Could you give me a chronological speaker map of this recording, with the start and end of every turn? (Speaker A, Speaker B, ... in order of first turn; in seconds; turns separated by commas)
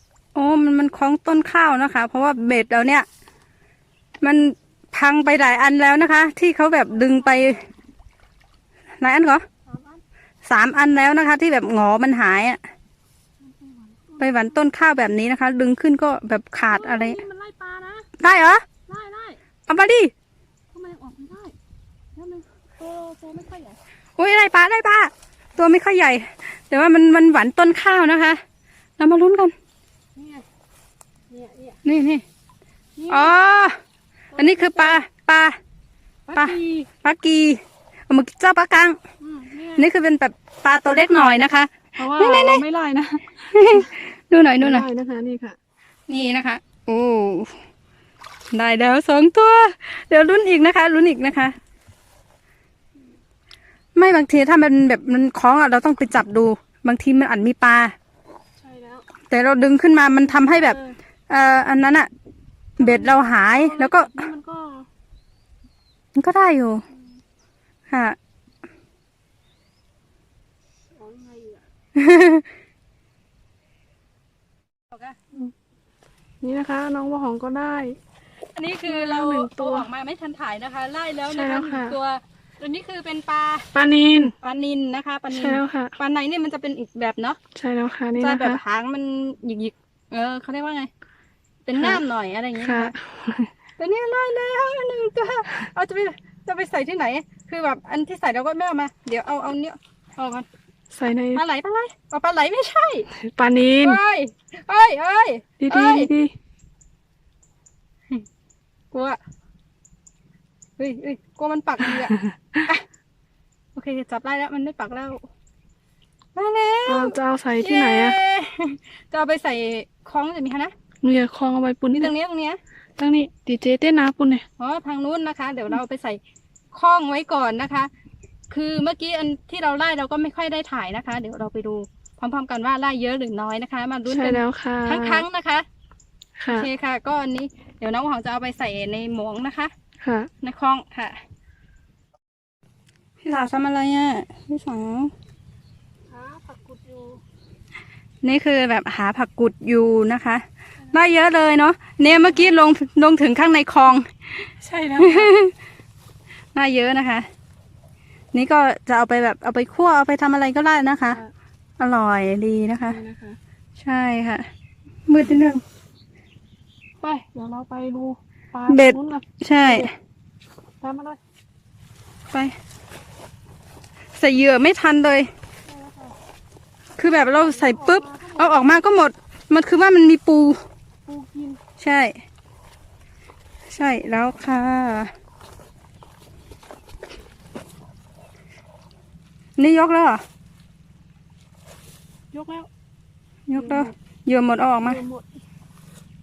Speaker A: 0.3-3.1, Speaker A: 4.2-7.7, Speaker B: 6.9-7.5, Speaker A: 9.0-9.4, Speaker B: 9.7-10.0, Speaker A: 10.5-12.6, Speaker B: 13.4-14.6, Speaker A: 14.2-17.2, Speaker B: 16.7-18.1, Speaker A: 18.2-18.7, Speaker B: 18.9-19.4, Speaker A: 19.7-20.1, Speaker B: 20.7-21.6, Speaker B: 22.1-23.8, Speaker A: 24.2-28.4, Speaker A: 29.0-29.5, Speaker B: 30.1-30.5, Speaker B: 31.3-31.8, Speaker A: 31.9-32.2, Speaker B: 33.0-33.4, Speaker A: 33.1-33.8, Speaker B: 34.3-35.0, Speaker A: 34.4-35.6, Speaker B: 36.3-36.9, Speaker A: 36.4-39.0, Speaker B: 39.2-39.9, Speaker A: 39.8-42.6, Speaker B: 42.0-43.9, Speaker A: 43.5-44.9, Speaker B: 44.6-45.6, Speaker A: 46.1-47.6, Speaker A: 48.5-51.6, Speaker A: 54.0-58.0, Speaker B: 58.6-59.1, Speaker A: 59.3-60.8, Speaker B: 60.1-61.0, Speaker A: 61.3-62.1, Speaker A: 62.8-64.3, Speaker B: 62.8-64.9, Speaker A: 66.2-66.8, Speaker A: 67.9-68.2, Speaker B: 71.0-71.7, Speaker A: 72.0-72.5, Speaker A: 74.9-75.2, Speaker B: 76.4-78.0, Speaker A: 78.5-83.7, Speaker B: 78.9-79.9, Speaker B: 81.3-82.0, Speaker B: 83.7-84.3, Speaker A: 84.4-87.4, Speaker B: 85.3-85.9, Speaker B: 87.5-88.6, Speaker A: 88.2-90.9, Speaker A: 91.7-92.9, Speaker B: 91.8-92.0, Speaker B: 92.6-93.5, Speaker A: 93.8-100.5, Speaker B: 100.9-101.4, Speaker A: 101.3-103.1, Speaker B: 103.1-104.0, Speaker A: 103.8-106.1, Speaker B: 105.6-106.3, Speaker A: 108.9-109.2, Speaker A: 110.8-112.8, Speaker B: 111.8-112.7, Speaker A: 113.8-115.2, Speaker A: 116.3-120.7, Speaker B: 116.9-118.2, Speaker B: 121.0-122.1, Speaker A: 121.9-122.6, Speaker B: 123.0-124.5, Speaker A: 124.6-126.2, Speaker A: 126.7-127.9, Speaker A: 128.5-135.7, Speaker B: 134.1-135.2, Speaker B: 136.4-136.7, Speaker A: 136.5-139.7, Speaker B: 140.0-140.3, Speaker A: 140.4-141.2, Speaker A: 143.2-145.1, Speaker B: 146.1-147.2, Speaker A: 148.2-155.5, Speaker B: 152.1-152.6, Speaker B: 154.6-155.4, Speaker A: 156.5-157.3, Speaker A: 158.3-161.2, Speaker A: 161.8-163.0, Speaker B: 162.9-163.4, Speaker A: 163.8-164.5, Speaker A: 165.1-165.6, Speaker B: 167.0-169.9, Speaker A: 168.7-169.9, Speaker B: 170.8-171.2, Speaker A: 174.2-175.3, Speaker B: 175.7-176.2, Speaker A: 177.0-180.6, Speaker B: 177.4-178.8, Speaker B: 181.1-181.6, Speaker A: 181.8-182.2, Speaker A: 183.7-185.1, Speaker A: 189.6-190.2, Speaker B: 192.3-192.7, Speaker A: 193.5-195.0, Speaker B: 193.6-193.9, Speaker B: 194.8-195.3